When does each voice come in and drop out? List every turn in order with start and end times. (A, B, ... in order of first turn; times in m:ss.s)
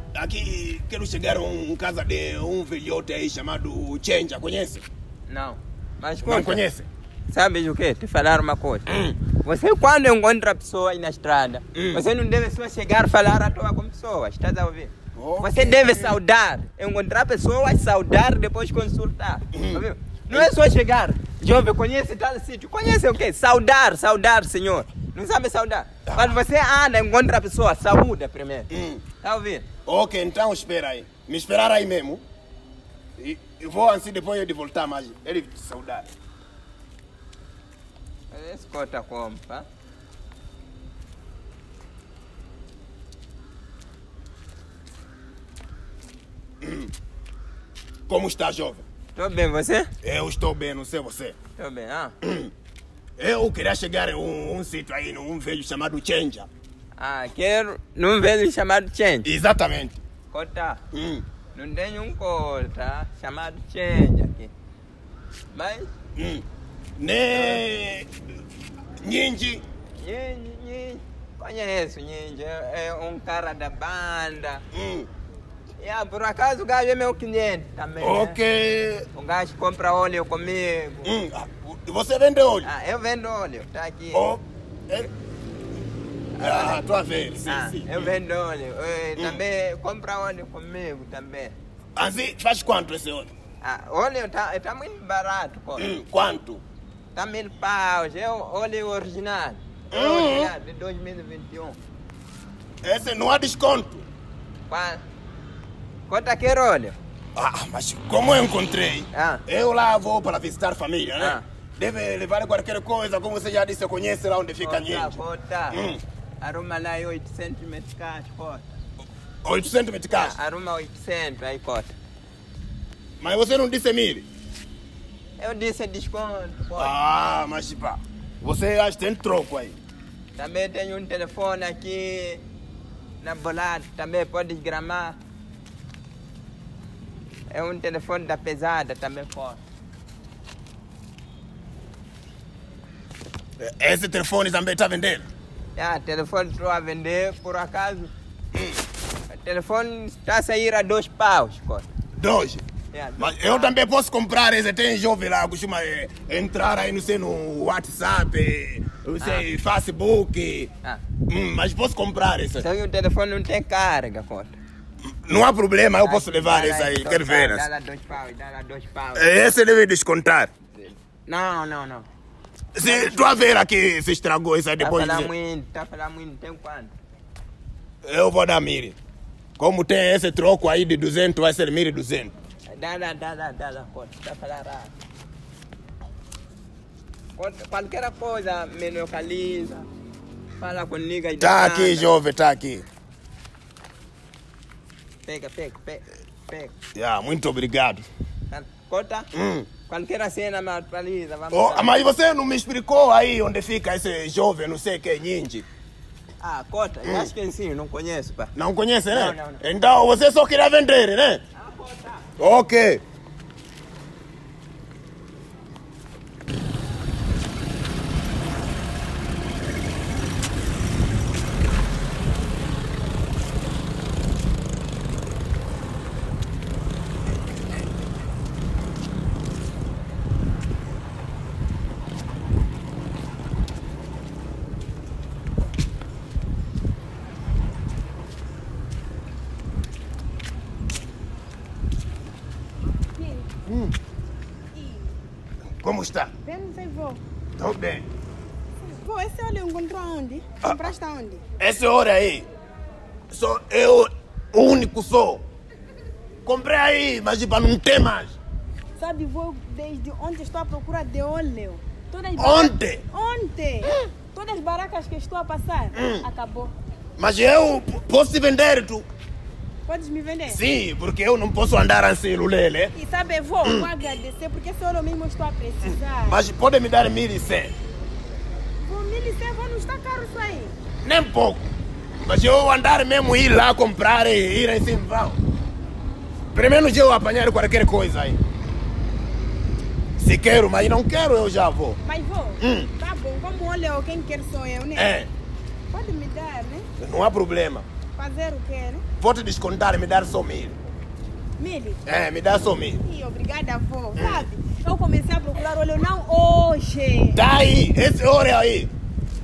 0:00.1-0:04.8 A
0:05.3-0:06.6 B
0:06.2-0:06.9 A
0:07.3-0:28.7 B
0:08.9-0:09.2 A
0:11.7-0:12.0 A
0:15.1-0:16.1 A
0:19.5-0:20.5 A
0:28.7-0:29.0 A
0:29.2-0:29.6 B
0:29.8-0:32.2 A
0:33.2-0:36.1 A
0:38.3-0:39.6 B
0:46.6-0:46.9 A
0:48.1-0:48.8 A
0:49.1-0:49.9 B
0:50.0-0:51.4 A
0:51.6-0:52.1 B
0:52.2-0:52.5 A
0:53.2-0:56.5 A
0:57.0-0:59.3 B
0:59.2-1:00.0 A
1:00.3-1:00.8 B
1:00.9-1:01.2 A
1:01.5-1:04.5 B
1:05.5-1:05.9 B
1:06.2-1:06.4 A
1:07.0-1:08.1 A
1:07.3-1:07.6 B
1:09.0-1:09.6 A
1:10.0-1:14.6 B
1:14.7-1:15.1 A
1:15.8-1:18.4 B
1:18.0-1:19.0 A
1:19.1-1:21.1 B
1:21.0-1:22.7 A
1:22.6-1:24.2 B
1:24.1-1:25.1 A
1:26.4-1:26.8 B
1:26.4-1:28.1 A
1:27.4-1:31.6 B
1:32.0-1:33.3 A
1:33.6-1:35.9 B
1:35.8-1:36.6 A
1:37.1-1:41.8 B
1:39.9-1:40.5 A
1:42.8-1:44.0 A
1:44.7-1:45.0 B
1:46.1-1:47.0 B
1:47.4-1:55.2 A
1:49.1-1:49.4 B
1:51.2-1:51.4 B
1:54.6-1:55.8 B
1:55.7-1:56.0 A
1:56.4-1:58.6 B
1:59.4-2:00.3 A
2:00.1-2:01.9 B
2:03.2-2:04.2 A
2:05.4-2:06.9 B
2:06.8-2:09.8 A
2:10.4-2:12.4 B
2:13.2-2:15.2 B
2:17.5-2:19.6 B
2:23.6-2:25.2 A
2:25.7-2:28.1 B
2:28.5-2:28.8 A
2:29.3-2:31.9 B
2:32.2-2:32.6 A
2:32.9-2:33.7 B
2:33.2-2:40.7 A
2:39.2-2:39.4 B
2:41.3-2:42.6 A
2:42.6-2:44.5 B
2:45.2-2:47.6 A
2:46.0-2:49.3 B
2:49.2-2:50.5 A
2:50.8-2:52.1 B
2:52.7-2:55.3 A
2:52.8-2:53.4 B
2:54.8-2:56.9 B
2:58.0-2:59.0 A
2:59.6-3:02.3 A
3:02.7-3:04.9 B
3:07.3-3:09.9 B
3:10.6-3:12.1 B
3:11.4-3:12.8 A
3:15.2-3:16.7 B
3:16.9-3:18.0 A
3:18.5-3:19.3 B
3:19.3-3:19.7 A
3:19.9-3:21.9 B
3:21.5-3:25.6 A
3:26.4-3:28.5 B
3:28.5-3:31.4 A
3:29.1-3:29.6 B
3:31.6-3:32.2 B
3:32.4-3:33.0 A
4:03.2-4:03.4 C
4:03.7-4:03.9 A
4:04.7-4:05.1 C
4:05.8-4:06.3 A
4:06.4-4:07.2 C
4:07.6-4:08.0 A
4:08.8-4:11.4 C
4:11.6-4:12.5 A
4:13.3-4:15.4 A
4:16.4-4:18.4 A
4:19.0-4:26.7 C
4:22.4-4:23.0 A
4:25.9-4:26.2 A
4:27.2-4:29.0 A
4:29.8-4:30.6 C
4:30.5-4:32.9 A
4:32.9-4:36.4 C
4:33.6-4:33.9 A
4:35.8-4:37.7 A
4:38.8-4:40.7 C
4:41.0-4:41.7 A
4:42.2-4:45.4 A
4:46.5-4:48.4 A
4:50.2-4:52.0 A
4:52.0-4:55.1 C
4:52.6-4:52.9 A
4:54.9-4:55.3 A
4:55.9-4:56.8 C
4:57.0-4:57.8 A
4:58.2-4:59.0 C
4:59.2-5:00.8 A
5:01.6-5:02.0 C
5:02.0-5:03.0 A
5:03.0-5:07.4 C
5:04.2-5:04.5 A
5:07.3-5:08.9 A